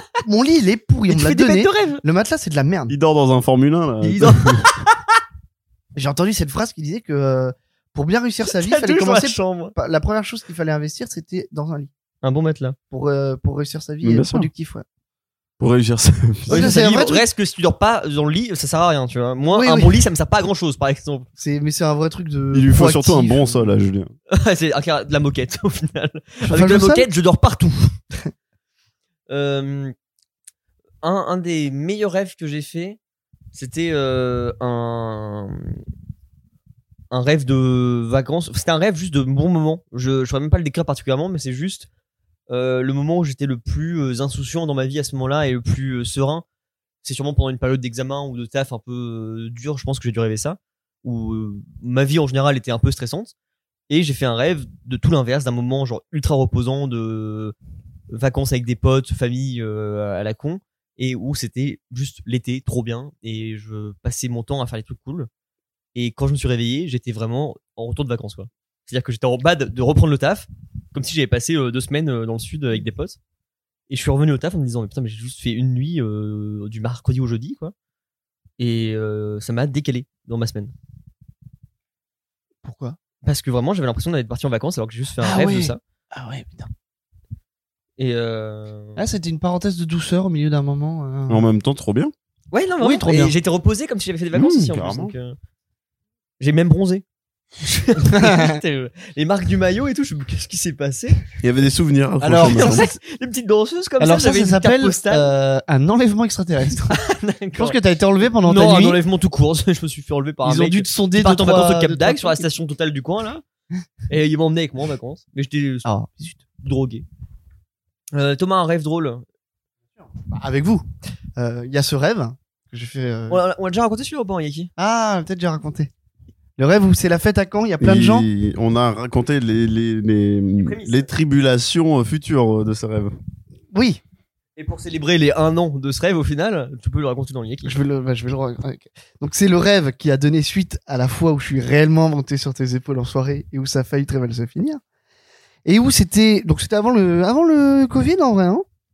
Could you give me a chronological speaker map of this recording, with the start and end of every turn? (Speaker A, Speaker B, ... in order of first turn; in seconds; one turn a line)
Speaker A: 0.2-3.0
Speaker B: 1.1-2.0
Speaker C: 2.9-4.7
Speaker B: 4.0-5.0
Speaker A: 6.0-11.9
Speaker B: 8.4-9.7
Speaker B: 12.2-12.8
Speaker A: 12.9-14.8
Speaker C: 14.0-14.5
Speaker C: 15.6-16.7
Speaker A: 16.5-17.3
Speaker B: 16.5-21.3
Speaker A: 19.5-20.0
Speaker A: 21.4-23.7
Speaker C: 22.5-24.1
Speaker B: 24.3-27.9
Speaker A: 26.5-27.1
Speaker B: 29.3-29.9
Speaker B: 31.0-33.0
Speaker B: 33.5-35.8
Speaker B: 37.1-41.9
Speaker B: 42.5-46.4
Speaker B: 47.0-53.3
Speaker B: 53.9-57.5
Speaker B: 58.1-65.3
Speaker B: 66.0-73.2
Speaker B: 73.9-77.7
Speaker B: 78.6-80.7
Speaker A: 82.6-83.0
Speaker B: 83.2-85.8
Speaker A: 85.2-86.7
Speaker B: 88.0-89.0
Speaker A: 89.0-91.5
Speaker C: 91.3-92.1
Speaker B: 92.5-95.4
Speaker A: 92.8-93.3
Speaker C: 94.3-95.2
Speaker B: 96.4-97.0
Speaker B: 97.6-101.2
Speaker A: 98.1-98.6
Speaker C: 101.4-102.9
Speaker A: 102.2-102.9
Speaker B: 102.4-105.3
Speaker A: 104.0-107.0
Speaker B: 106.9-107.8
Speaker A: 107.6-109.0
Speaker B: 108.4-113.4
Speaker A: 110.5-112.5
Speaker B: 114.1-115.9
Speaker A: 115.8-116.4
Speaker B: 116.6-117.0
Speaker B: 118.1-119.2
Speaker A: 120.1-120.8
Speaker A: 121.4-123.4
Speaker B: 123.3-124.7
Speaker A: 124.8-125.9
Speaker A: 126.6-128.3
Speaker C: 127.8-133.2
Speaker B: 130.6-131.1
Speaker A: 133.7-134.0
Speaker B: 134.6-137.8
Speaker A: 137.6-144.8
Speaker A: 145.7-148.7